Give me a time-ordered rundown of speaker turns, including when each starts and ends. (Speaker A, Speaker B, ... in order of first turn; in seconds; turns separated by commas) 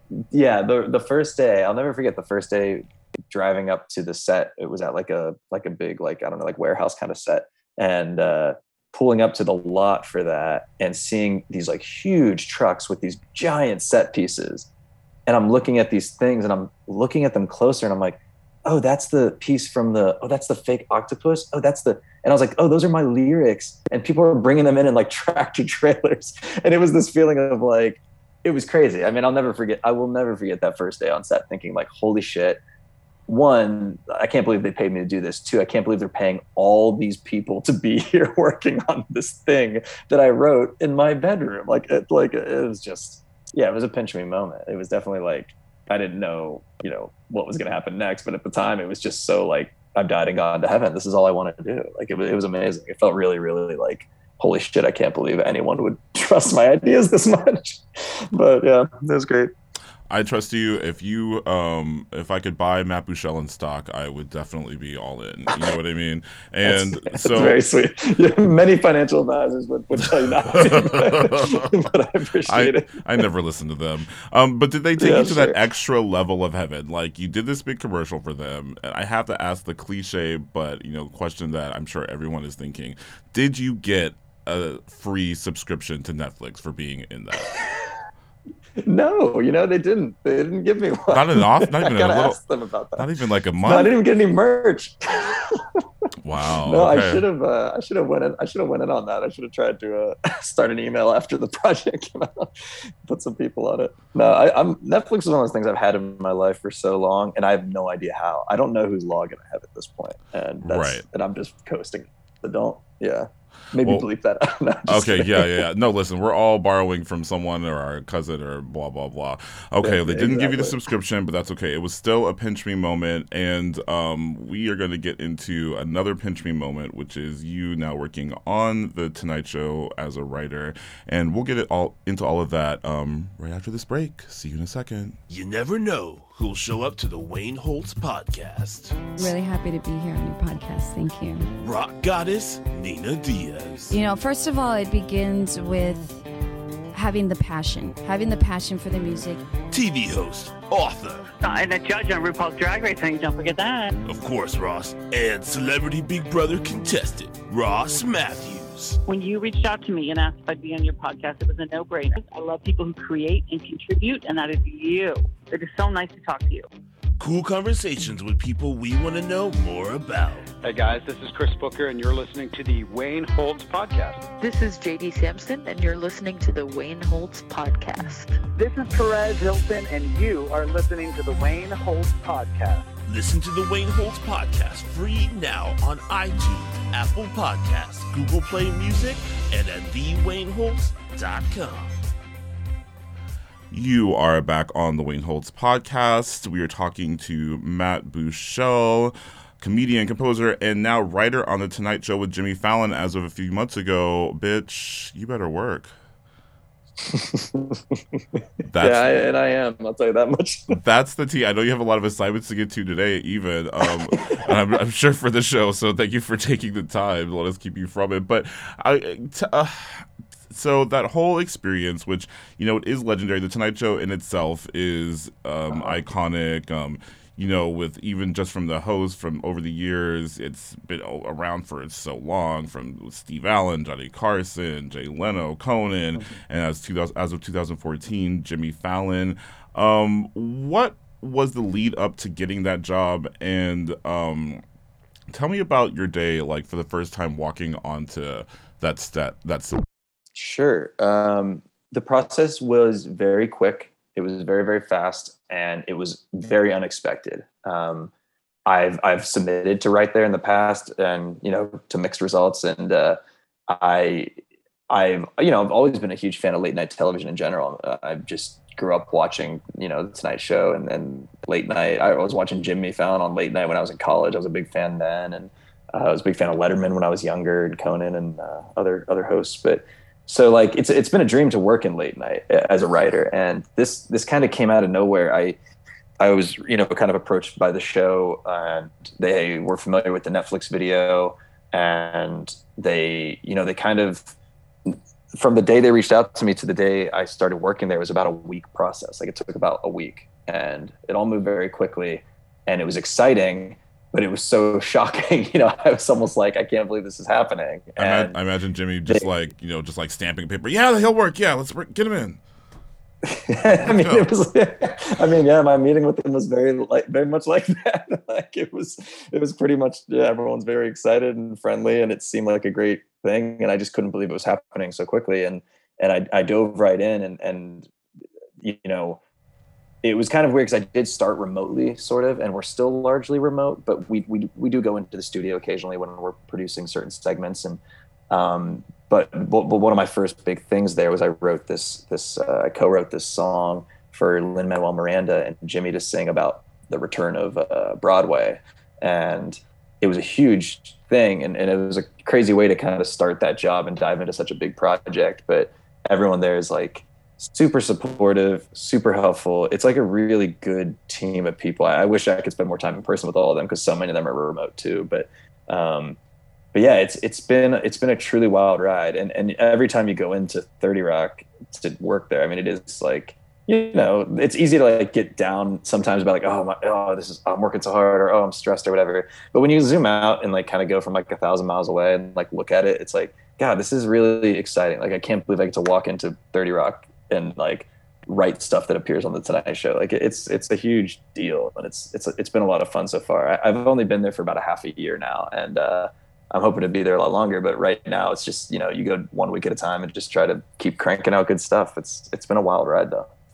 Speaker A: 0.2-14.7, Speaker A: 15.3-32.6, Speaker A: 33.3-59.5, Speaker B: 60.1-67.6, Speaker A: 66.7-73.2, Speaker B: 70.5-71.8, Speaker B: 72.5-87.5, Speaker A: 75.0-75.6, Speaker A: 87.6-87.9, Speaker A: 88.8-93.1, Speaker B: 91.1-92.4, Speaker B: 93.0-93.9, Speaker A: 93.6-95.8, Speaker B: 96.2-97.2, Speaker A: 96.6-102.5, Speaker A: 103.1-115.6, Speaker B: 110.6-111.0, Speaker B: 114.9-135.2, Speaker A: 119.8-120.8, Speaker C: 135.3-139.3, Speaker D: 139.2-141.5, Speaker C: 141.6-144.0, Speaker D: 143.9-146.2, Speaker D: 146.9-149.5, Speaker C: 149.7-151.3, Speaker E: 151.4-154.0, Speaker C: 154.1-159.0, Speaker E: 159.1-166.7, Speaker C: 167.2-170.5, Speaker F: 170.6-174.2, Speaker G: 174.4-178.4, Speaker H: 178.6-182.8, Speaker C: 183.1-192.0, Speaker B: 193.7-205.9, Speaker A: 207.0-207.8, Speaker B: 208.6-209.1, Speaker A: 208.8-210.8, Speaker B: 210.7-244.6, Speaker A: 214.1-214.4, Speaker A: 225.7-226.0, Speaker B: 245.3-249.8, Speaker A: 250.3-258.1, Speaker A: 258.7-264.3, Speaker A: 264.9-285.6, Speaker A: 286.2-294.3, Speaker A: 294.9-308.4, Speaker B: 308.0-312.4, Speaker A: 313.2-327.9, Speaker B: 313.7-314.3, Speaker A: 328.6-329.2, Speaker A: 330.0-366.2, Speaker A: 366.7-403.3